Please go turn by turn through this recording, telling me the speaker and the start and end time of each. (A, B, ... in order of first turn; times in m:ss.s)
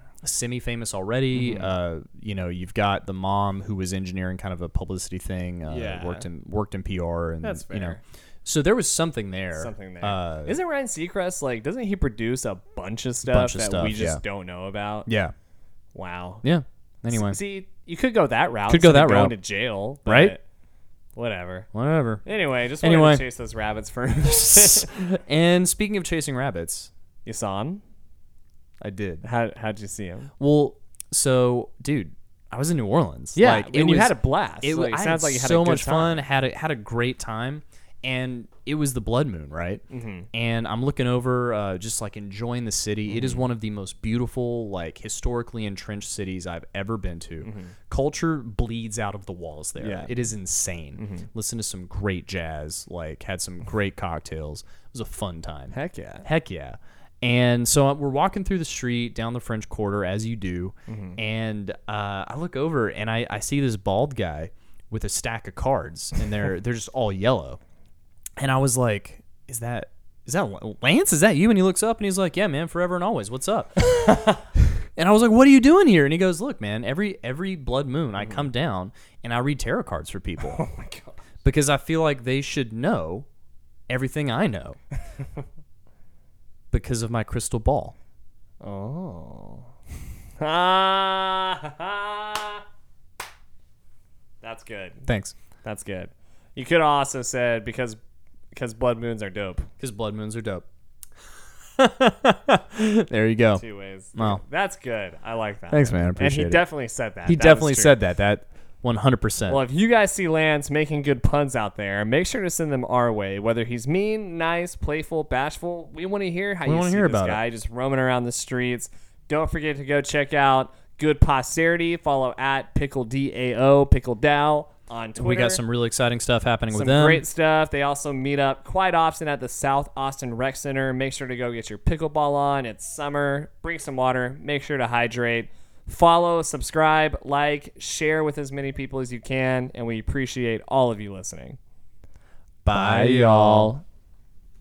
0:00.2-0:10.6 A
0:01.3-0:01.7 B
0:05.7-0:06.3 B
0:07.4-0:08.0 B
0:09.6-0:15.1 B
0:13.2-0:14.2 A
0:15.1-0:15.3 A
0:16.0-0:16.4 B
0:16.4-0:17.4 A
0:17.1-0:20.4 B
0:18.7-0:19.4 A
0:20.1-0:20.4 A
0:21.2-0:21.7 B
0:21.7-0:22.2 A
0:22.2-0:24.9 B
0:22.8-0:23.2 A
0:24.2-0:26.9 A
0:27.2-0:27.8 B
0:28.8-0:29.2 A
0:29.2-0:30.3 B
0:30.4-1:07.6 A
0:33.4-0:36.2 B
0:39.9-0:40.3 B
0:43.1-0:43.4 B
0:47.4-0:47.8 B
0:49.8-0:50.1 B
0:51.0-0:51.3 B
0:55.7-0:56.3 B
1:00.9-1:01.2 B
1:08.4-1:20.6 A
1:18.2-1:18.5 B
1:20.4-1:21.2 B
1:21.4-1:23.3 A
1:23.9-1:24.8 A
1:26.7-1:28.0 A
1:28.6-1:29.7 B
1:30.4-1:32.6 B
1:34.4-1:35.0 B
1:35.1-1:35.4 A
1:35.6-1:38.0 B
1:38.5-1:39.7 B
1:39.8-1:40.7 A
1:41.8-1:43.6 A
1:43.5-1:48.0 B
1:44.2-1:44.4 A
1:45.7-1:46.6 A
1:47.3-1:49.6 A
1:49.5-2:05.6 B
1:56.6-1:57.4 A
2:05.2-2:07.2 A
2:06.7-2:21.6 B
2:22.6-2:23.7 A
2:22.7-2:23.8 B